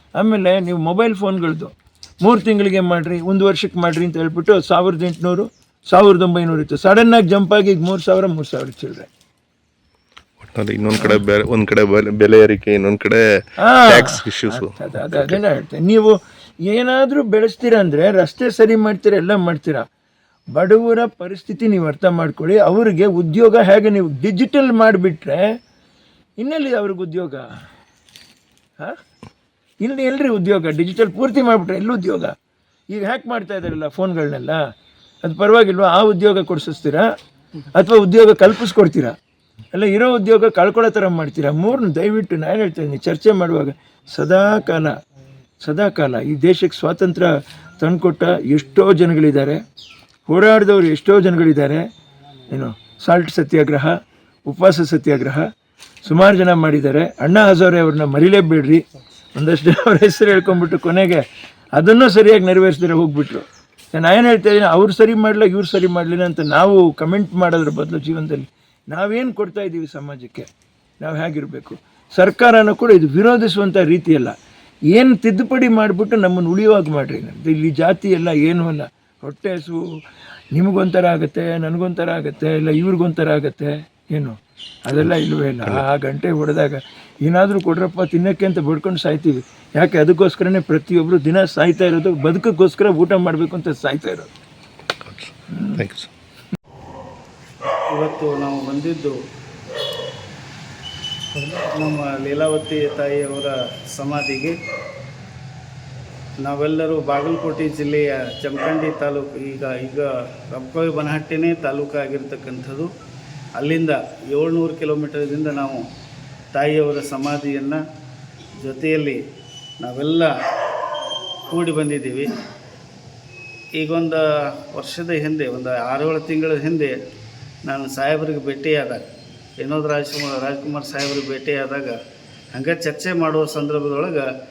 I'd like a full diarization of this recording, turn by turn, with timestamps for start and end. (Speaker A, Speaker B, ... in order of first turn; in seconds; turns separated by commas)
Speaker A: 0.2-9.1, Speaker B: 10.4-13.2, Speaker A: 13.6-19.9, Speaker B: 13.8-15.4, Speaker A: 20.5-25.6, Speaker A: 26.4-27.4, Speaker A: 29.8-32.3, Speaker A: 32.9-34.6, Speaker A: 35.2-37.1, Speaker A: 37.7-39.2, Speaker A: 39.7-45.0, Speaker A: 45.6-49.6, Speaker A: 50.3-51.9, Speaker A: 52.5-54.0, Speaker A: 54.5-55.5, Speaker A: 56.0-61.2, Speaker A: 61.8-70.5, Speaker A: 71.0-74.3, Speaker A: 74.9-79.8, Speaker A: 80.5-94.3, Speaker B: 95.0-96.1, Speaker A: 95.5-95.8, Speaker C: 97.9-99.2, Speaker C: 101.5-104.6, Speaker C: 106.4-112.9, Speaker C: 113.6-115.8, Speaker C: 116.5-117.8, Speaker C: 118.6-119.2, Speaker C: 119.8-120.3, Speaker C: 121.5-122.3, Speaker C: 123.8-126.9, Speaker C: 127.7-129.1, Speaker C: 129.6-131.9, Speaker C: 132.5-134.3